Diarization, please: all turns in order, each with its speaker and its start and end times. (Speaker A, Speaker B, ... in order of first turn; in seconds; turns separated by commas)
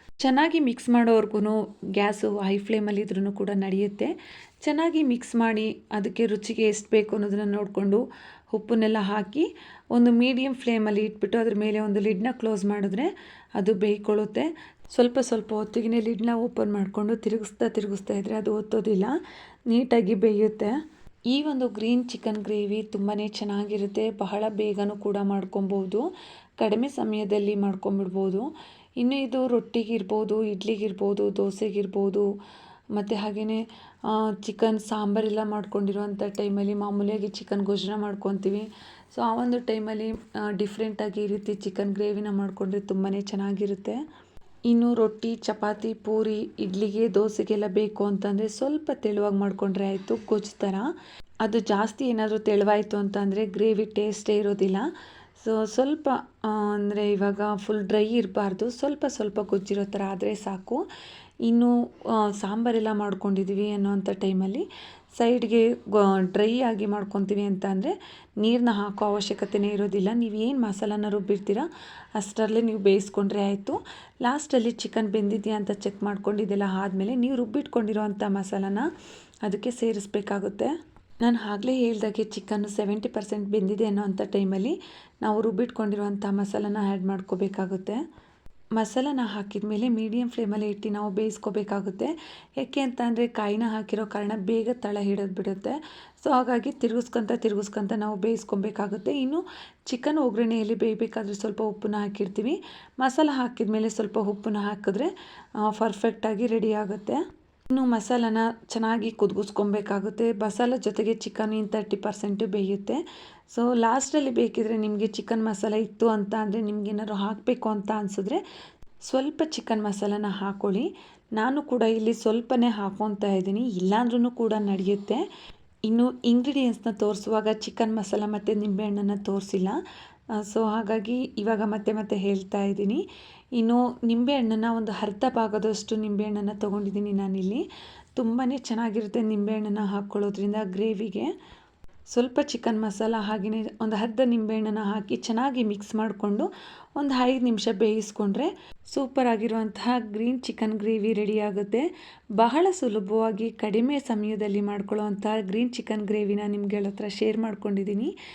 Speaker A: 0.2-19.1, Speaker A: 19.7-20.7, Speaker A: 21.3-26.1, Speaker A: 26.6-28.5, Speaker A: 29.0-32.2, Speaker A: 32.9-44.0, Speaker A: 44.7-50.9, Speaker A: 51.4-54.9, Speaker A: 55.4-60.8, Speaker A: 61.4-78.9, Speaker A: 79.4-88.0, Speaker A: 88.8-118.4, Speaker A: 119.0-125.2, Speaker A: 125.9-129.8, Speaker A: 130.4-141.3, Speaker A: 142.1-158.1